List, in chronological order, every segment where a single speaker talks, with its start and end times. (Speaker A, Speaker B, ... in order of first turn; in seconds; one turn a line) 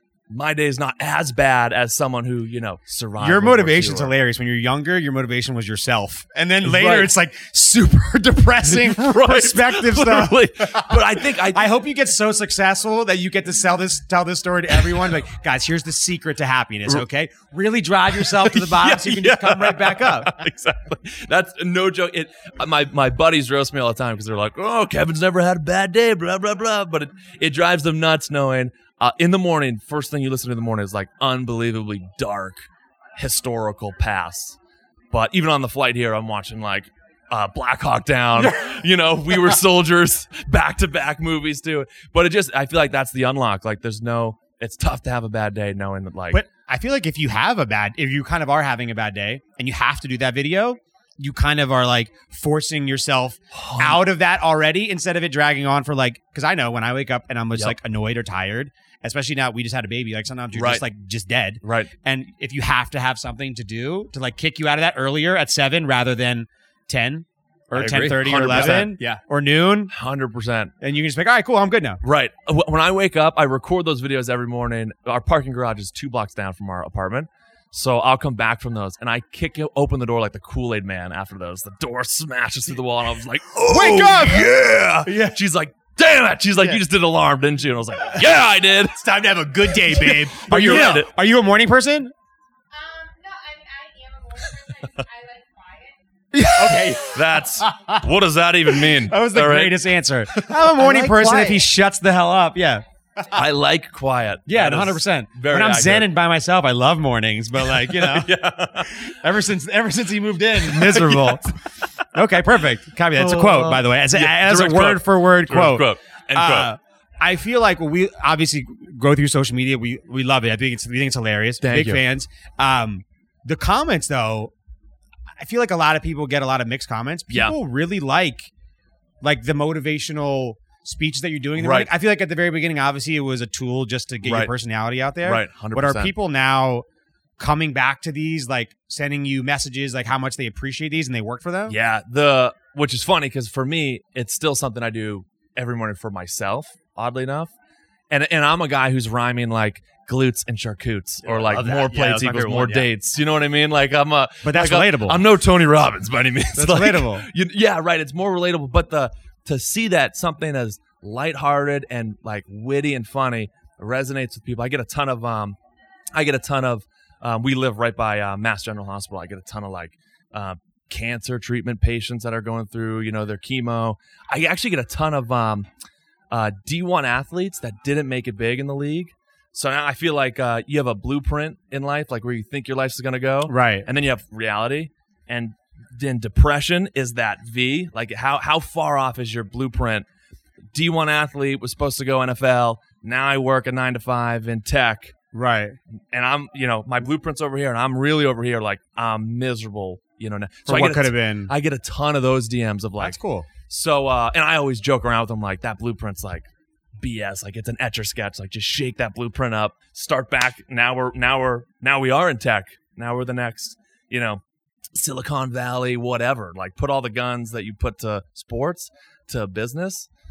Speaker A: 0.3-4.1
Speaker B: 3.2-20.4
Speaker A: 6.6-7.1
Speaker A: 8.7-11.7
Speaker A: 18.1-34.6
Speaker A: 35.1-46.4
Speaker B: 46.3-69.9
Speaker A: 53.5-54.0
Speaker A: 60.5-60.8
Speaker A: 61.6-61.9
Speaker C: 67.7-69.2
Speaker A: 68.0-69.0
Speaker A: 69.9-70.7
Speaker B: 70.8-72.0
Speaker A: 72.0-89.0
Speaker B: 83.7-85.4
Speaker C: 88.9-91.0
Speaker A: 89.8-91.1
Speaker B: 90.5-92.1
Speaker D: 92.7-96.0
Speaker B: 96.3-97.0
Speaker C: 96.5-97.1
Speaker A: 96.7-99.9
Speaker B: 98.9-102.8
Speaker C: 100.7-101.6
Speaker A: 103.3-106.1
Speaker B: 104.5-111.5
Speaker A: 107.6-109.1
Speaker A: 110.6-111.6
Speaker B: 112.1-124.5
Speaker A: 113.2-116.7
Speaker A: 121.6-122.0
Speaker B: 125.4-128.5
Speaker A: 127.3-127.6
Speaker B: 129.2-136.9
Speaker A: 131.6-131.9
Speaker A: 134.2-134.5
Speaker A: 135.2-136.1
Speaker B: 137.4-141.8
Speaker A: 141.7-147.5
Speaker A: 148.1-165.6
Speaker C: 151.2-152.9
Speaker B: 154.4-155.2
Speaker B: 156.6-157.3
Speaker A: 166.1-175.7
Speaker A: 176.3-190.1
Speaker B: 183.5-183.9
Speaker A: 190.7-195.2
Speaker B: 195.3-195.8
Speaker A: 196.1-206.5
Speaker B: 200.7-201.5
Speaker B: 203.0-203.5
Speaker A: 207.0-214.4
Speaker A: 214.9-220.1